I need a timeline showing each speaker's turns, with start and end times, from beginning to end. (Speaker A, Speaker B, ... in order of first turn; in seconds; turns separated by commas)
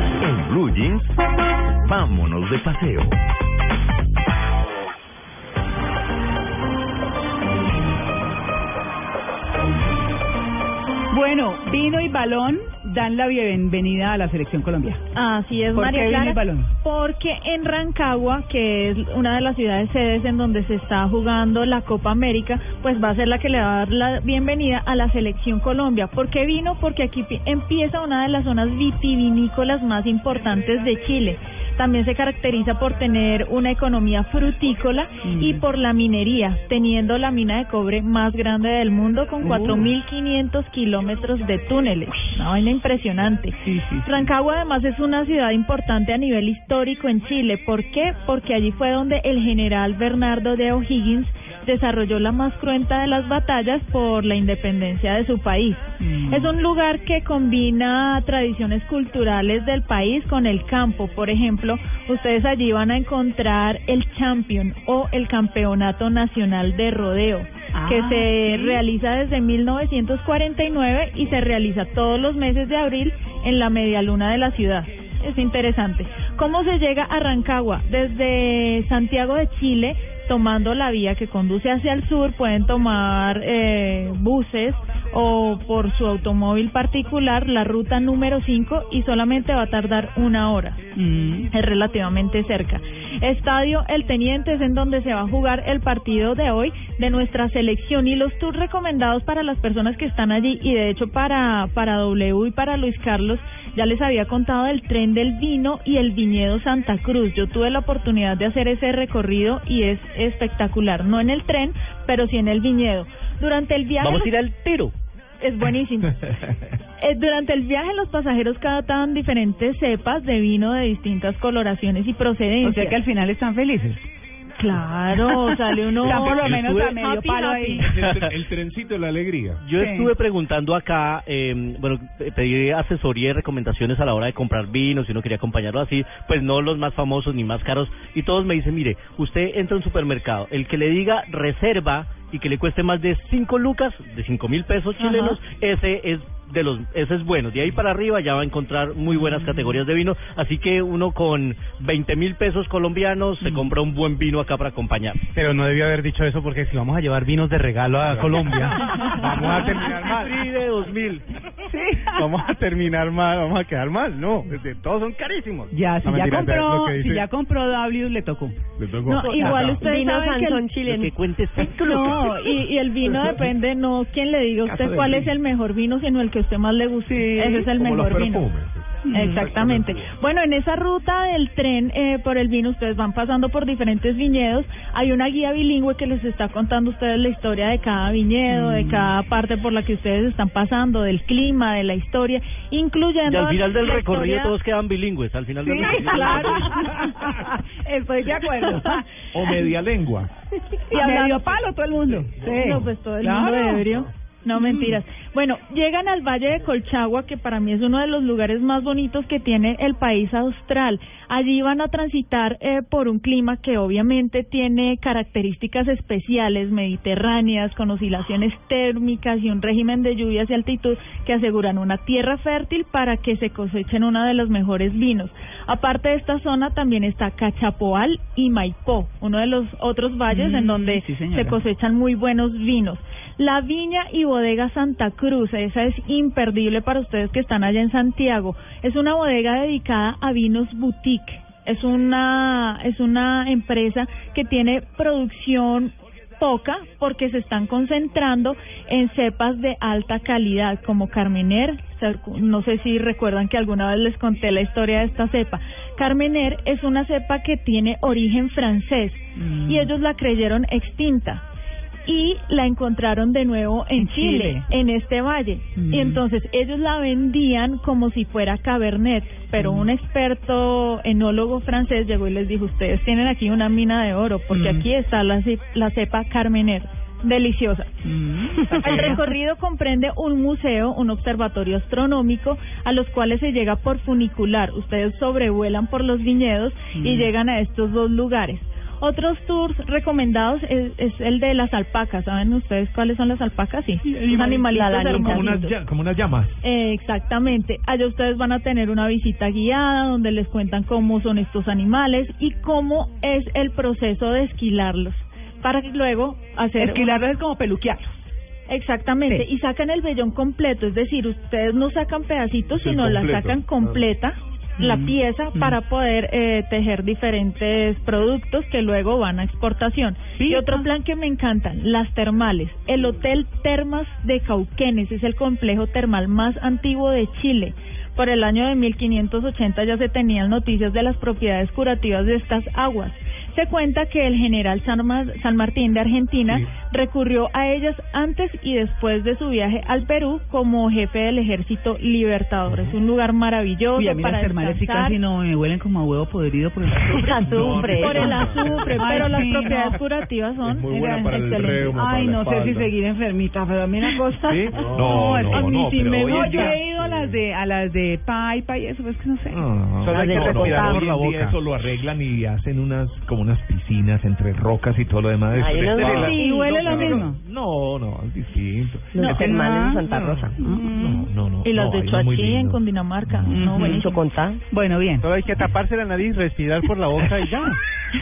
Speaker A: 0.2-1.1, Speaker A: 1.8-3.1, Speaker B: 11.1-15.0, Speaker C: 15.1-90.8, Speaker B: 15.7-16.7, Speaker B: 35.2-35.6, Speaker B: 39.4-39.9, Speaker B: 43.6-44.2, Speaker B: 56.1-56.5, Speaker B: 67.8-68.8, Speaker B: 91.0-91.5, Speaker C: 91.5-114.3, Speaker D: 114.0-114.9, Speaker C: 115.4-116.2, Speaker C: 117.0-123.0, Speaker B: 122.6-124.0, Speaker C: 124.6-127.9, Speaker B: 126.0-127.9, Speaker D: 126.1-126.8, Speaker D: 128.0-128.3, Speaker E: 128.1-128.7, Speaker D: 129.6-155.2, Speaker B: 129.7-130.1, Speaker C: 145.0-145.4, Speaker F: 155.3-160.4, Speaker D: 158.2-158.6, Speaker B: 158.9-159.6, Speaker D: 159.4-161.2, Speaker B: 161.7-162.5, Speaker F: 162.1-167.2, Speaker B: 165.7-168.6, Speaker C: 169.1-170.7, Speaker G: 169.2-171.1, Speaker B: 169.2-169.6, Speaker D: 170.8-172.5, Speaker C: 171.6-178.5, Speaker E: 174.6-175.3, Speaker B: 177.1-177.7, Speaker E: 177.8-178.7, Speaker B: 179.0-179.4, Speaker C: 179.1-194.5, Speaker E: 179.6-179.9, Speaker B: 188.5-189.1, Speaker D: 193.2-196.8, Speaker B: 195.6-199.1, Speaker E: 199.3-200.3, Speaker B: 200.9-203.9, Speaker C: 200.9-201.6, Speaker C: 202.4-261.4, Speaker B: 204.6-205.0, Speaker B: 230.3-231.6, Speaker B: 259.4-259.9, Speaker C: 262.1-277.9, Speaker B: 264.0-264.7, Speaker B: 265.8-266.2, Speaker B: 269.6-269.9, Speaker B: 274.5-274.9, Speaker B: 278.1-279.2, Speaker C: 278.6-295.8, Speaker B: 287.0-287.3, Speaker G: 294.3-295.6, Speaker E: 295.1-296.6, Speaker C: 296.6-307.2, Speaker B: 306.8-308.2, Speaker C: 308.7-345.2, Speaker B: 314.8-315.8, Speaker B: 320.4-320.9, Speaker B: 344.0-347.4, Speaker G: 347.1-348.5, Speaker E: 347.2-348.8, Speaker C: 347.8-352.0, Speaker B: 348.9-350.0, Speaker F: 350.8-352.9, Speaker B: 350.8-359.7, Speaker E: 354.5-356.8, Speaker E: 359.5-373.7, Speaker F: 360.0-361.6, Speaker G: 360.1-360.9, Speaker G: 365.5-366.2, Speaker F: 365.9-366.3, Speaker B: 366.1-367.4, Speaker C: 366.3-366.8, Speaker G: 369.1-370.6, Speaker B: 369.2-370.0, Speaker B: 370.6-371.1, Speaker C: 371.6-374.2, Speaker B: 373.4-374.1, Speaker G: 373.8-374.6, Speaker B: 374.7-375.3, Speaker F: 375.2-377.8